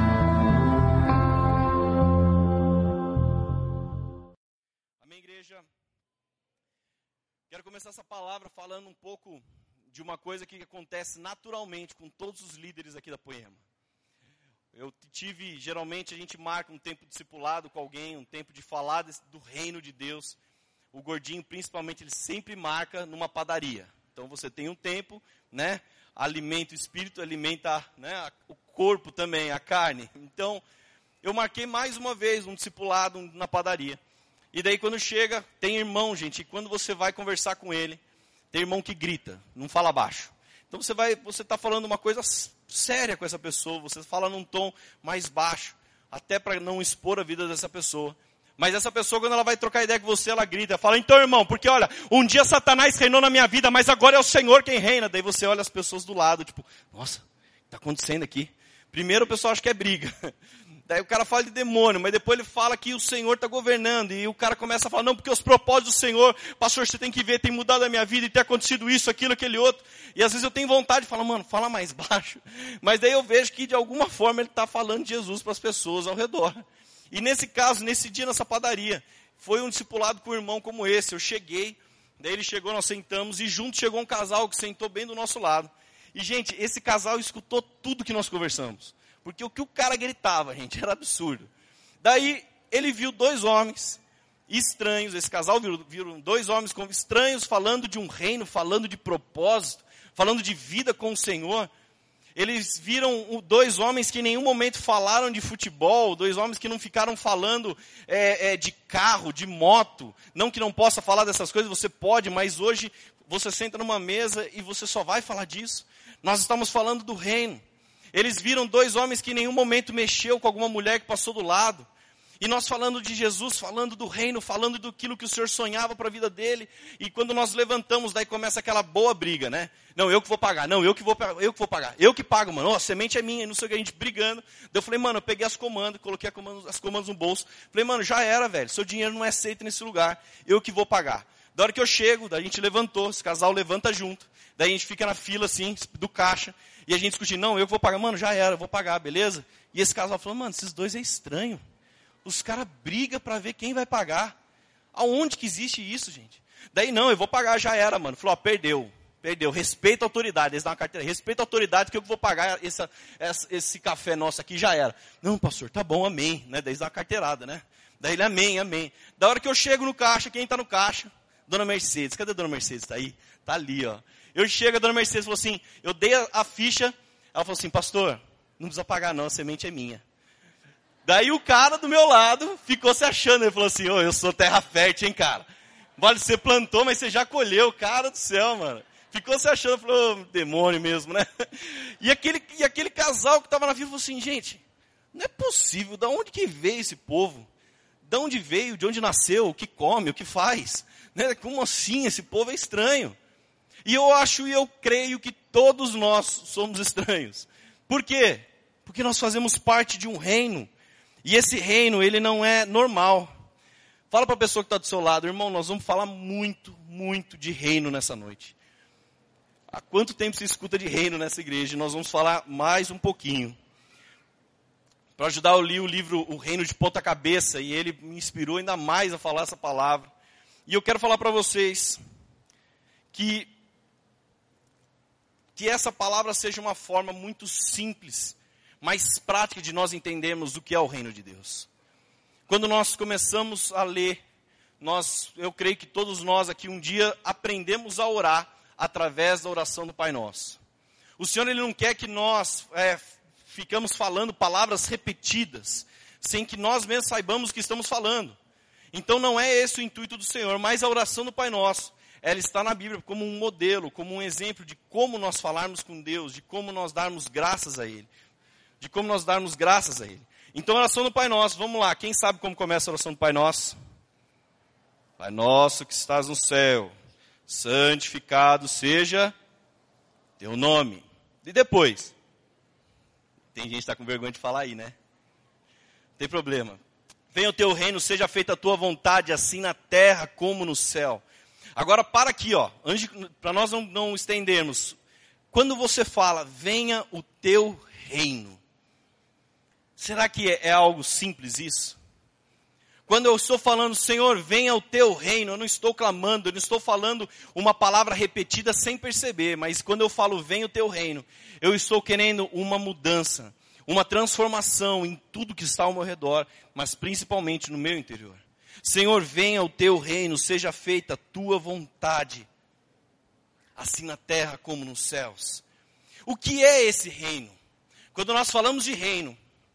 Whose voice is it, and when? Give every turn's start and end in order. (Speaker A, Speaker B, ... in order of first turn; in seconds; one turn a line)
Speaker A: 5.0-5.7
Speaker A: 7.5-13.6
Speaker A: 14.7-20.4
Speaker A: 20.9-30.6
Speaker A: 31.2-34.0
Speaker A: 34.5-38.0
Speaker A: 38.5-60.3
Speaker A: 60.9-91.5
Speaker A: 92.0-101.7
Speaker A: 102.3-117.6
Speaker A: 118.1-121.9
Speaker A: 122.4-151.6
Speaker A: 152.2-154.3
Speaker A: 154.9-180.0
Speaker A: 181.1-185.5
Speaker A: 186.0-194.6
Speaker A: 195.1-197.5
Speaker A: 198.1-203.2
Speaker A: 203.9-210.7
Speaker A: 211.2-213.3
Speaker A: 214.1-218.6
Speaker A: 219.7-223.6
Speaker A: 225.2-230.1
Speaker A: 230.7-232.0
Speaker A: 233.1-233.5
Speaker A: 235.6-241.7
Speaker A: 242.5-244.2
Speaker A: 244.8-250.6
Speaker A: 251.2-258.4
Speaker A: 258.9-268.1
Speaker A: 268.8-273.8
Speaker A: 275.2-276.9
Speaker A: 277.5-279.3
Speaker A: 280.4-282.1
Speaker A: 283.5-285.0
Speaker A: 286.2-286.8
Speaker A: 287.3-291.2
Speaker A: 291.8-295.0
Speaker A: 295.5-298.6
Speaker A: 300.0-302.0
Speaker A: 303.1-322.5
Speaker A: 323.8-325.6
Speaker A: 326.3-327.6
Speaker A: 328.1-329.4